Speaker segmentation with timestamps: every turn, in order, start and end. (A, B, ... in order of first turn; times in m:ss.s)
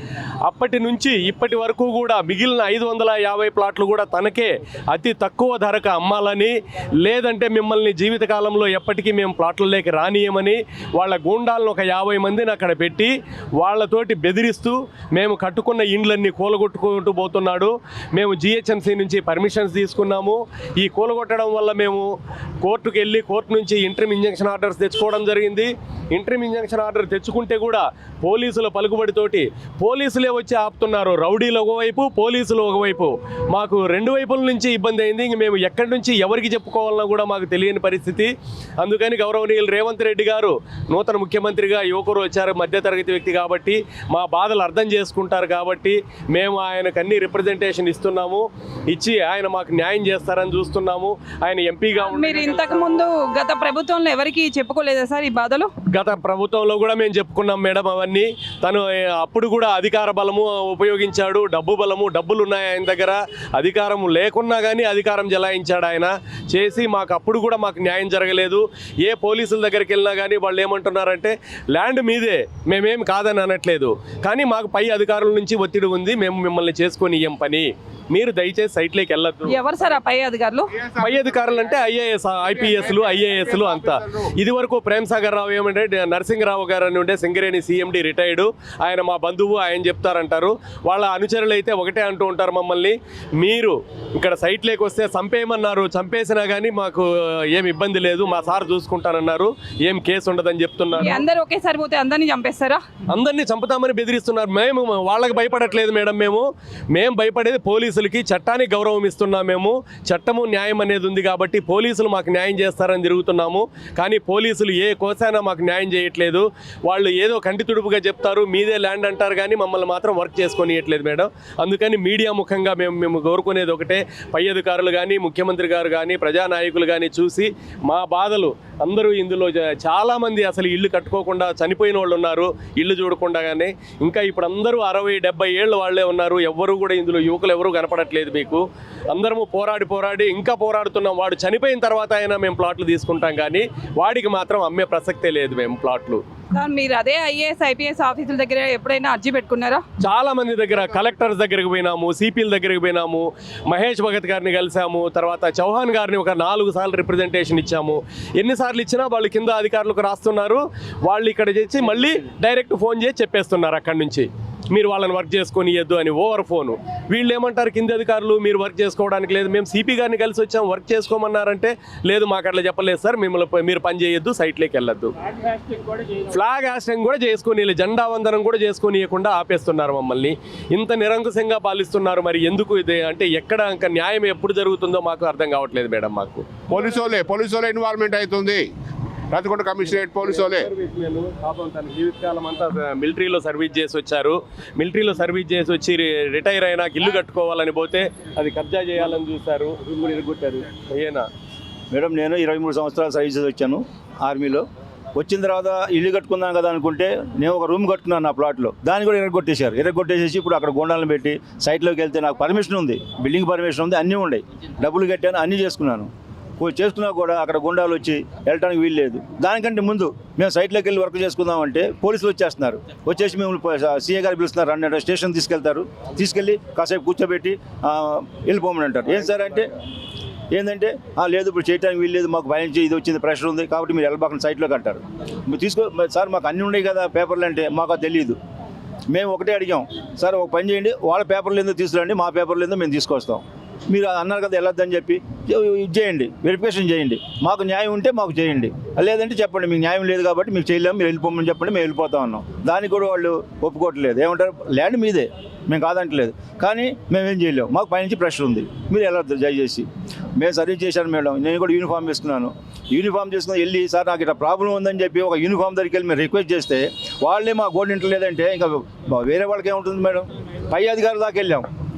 0:00.4-0:53.0 A
0:52.1-0:55.7 B
0:55.9-1:19.6 A
1:19.5-1:20.7 B
1:20.9-1:41.2 A
1:41.0-1:42.8 B
1:43.1-2:26.2 A
2:26.6-2:29.8 B
2:30.0-2:55.1 A
2:56.2-3:06.5 A
3:06.7-3:08.7 C
3:09.3-3:10.7 C
3:10.2-3:21.3 A
3:21.9-3:24.6 D
3:25.2-3:36.1 D
3:36.6-3:49.7 D
3:50.5-3:58.4 D
3:59.1-4:19.9 D
4:20.4-4:31.7 D